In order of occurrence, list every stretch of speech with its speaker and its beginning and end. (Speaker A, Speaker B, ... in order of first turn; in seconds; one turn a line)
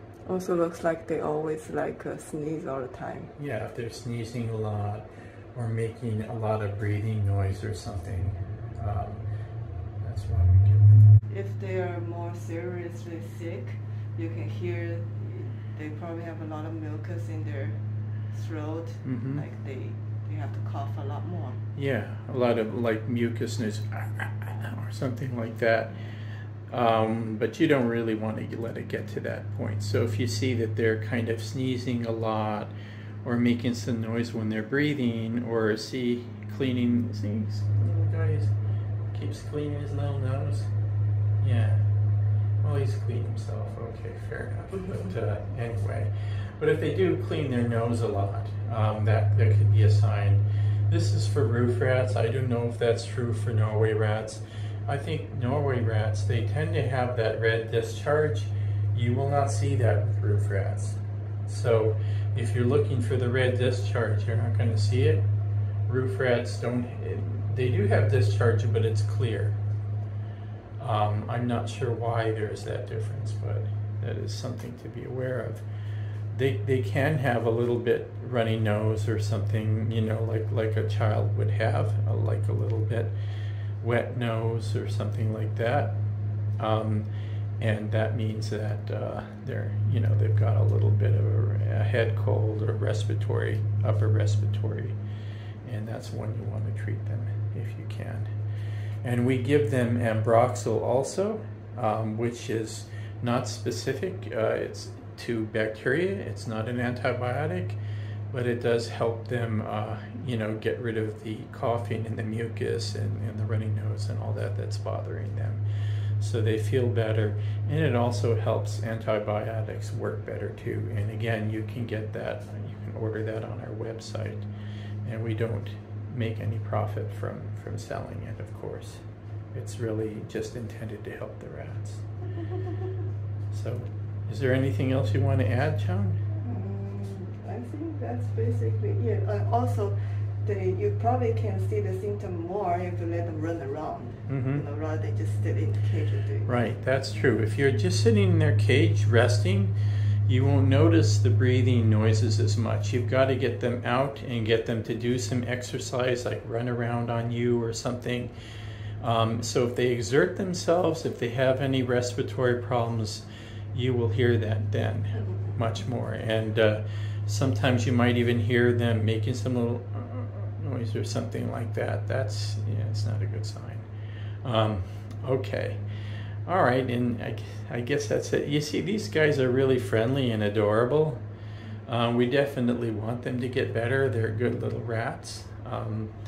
Speaker A: 0.2-3.3
Speaker B: 3.4-9.2
Speaker B: 10.0-11.1
Speaker A: 11.3-17.8
Speaker A: 18.3-21.6
Speaker B: 19.0-19.4
Speaker B: 21.8-25.9
Speaker B: 26.7-32.7
Speaker B: 33.2-38.5
Speaker B: 39.1-40.7
Speaker B: 41.4-41.9
Speaker B: 42.6-65.2
Speaker B: 65.9-69.6
Speaker B: 70.8-75.6
Speaker B: 76.3-83.1
Speaker B: 83.8-86.0
Speaker B: 86.6-87.1
Speaker B: 87.6-95.0
Speaker B: 95.6-98.3
Speaker B: 99.0-107.8
Speaker B: 108.3-115.6
Speaker B: 116.2-124.5
Speaker B: 125.0-129.0
Speaker B: 129.5-132.0
Speaker B: 133.5-136.2
Speaker A: 136.4-146.7
Speaker B: 144.3-144.6
Speaker B: 146.5-149.8
Speaker B: 150.3-158.3
Speaker B: 159.0-173.9
Speaker A: 165.2-165.5
Speaker B: 174.4-175.8
Speaker B: 176.4-181.2
Speaker B: 181.9-186.1